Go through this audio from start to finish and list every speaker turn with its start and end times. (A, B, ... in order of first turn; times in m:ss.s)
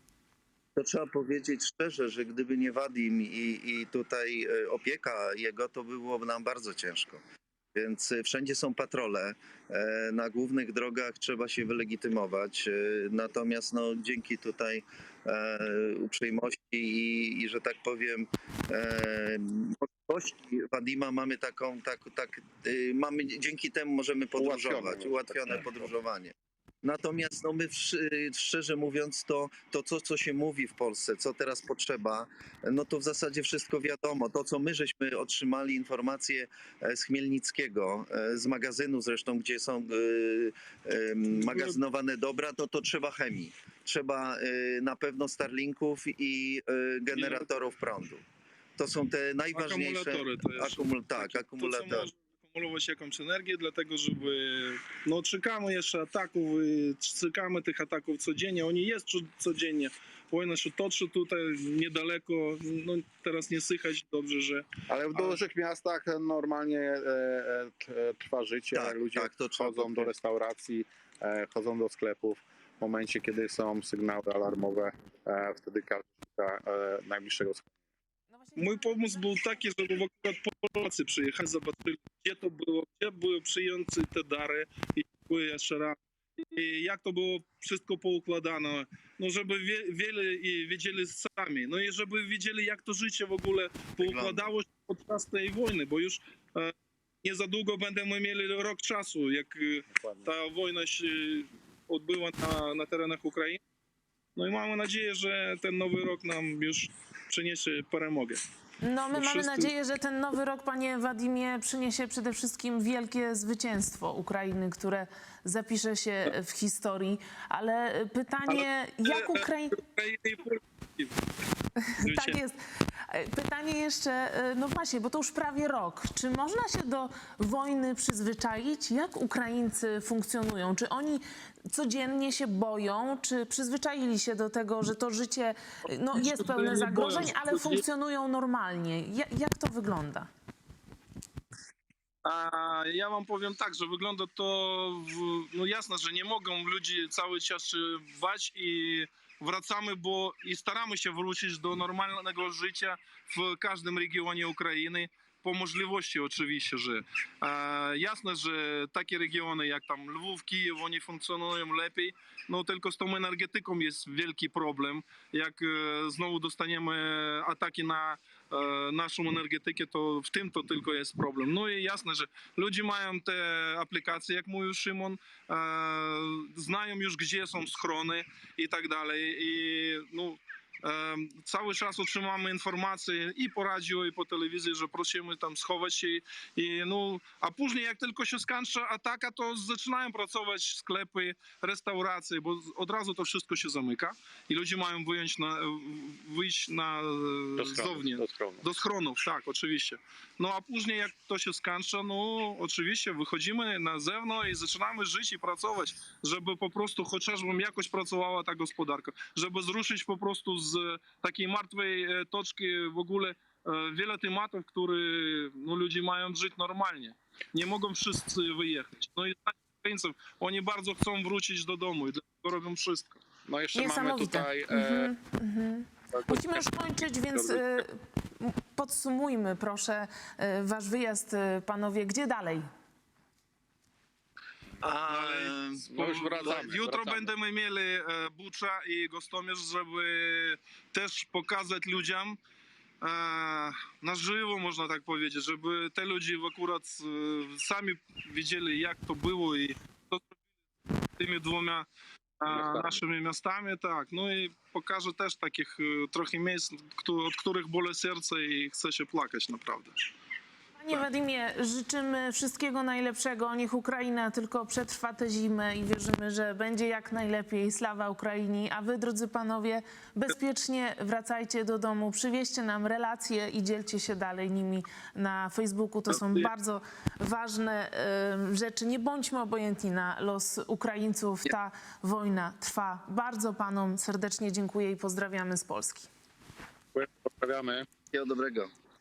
0:00.8-0:07.2 A
0:07.7-0:48.2 A
0:24.4-0:25.8 B
0:41.3-0:41.8 C
0:47.1-0:47.5 C
0:48.8-0:52.1 A
0:49.5-1:05.4 C
1:04.9-1:17.7 B
1:08.7-1:10.1 A
1:18.3-1:20.0 D
1:18.6-1:43.6 C
1:34.0-1:34.5 A
1:39.9-1:40.3 B
1:44.4-1:48.4 C
1:48.8-1:59.8 D
1:49.1-1:49.7 C
1:58.5-2:01.2 C
2:01.8-2:20.3 D
2:02.0-2:02.4 C
2:16.1-2:17.8 C
2:22.2-3:43.2 C
3:17.6-3:18.6 B
3:43.4-3:45.1 B
3:43.7-3:52.6 D
3:46.1-3:46.6 B
3:47.3-3:47.8 B
3:54.8-3:55.8 A
3:55.1-4:02.4 C
3:55.8-3:57.3 B
4:03.0-4:10.3 C
4:11.2-4:11.9 C
4:12.4-4:20.0 C
4:12.5-4:13.0 B
4:20.8-4:46.1 D
4:36.1-4:36.5 C
4:46.9-4:47.8 B
4:48.1-4:48.7 A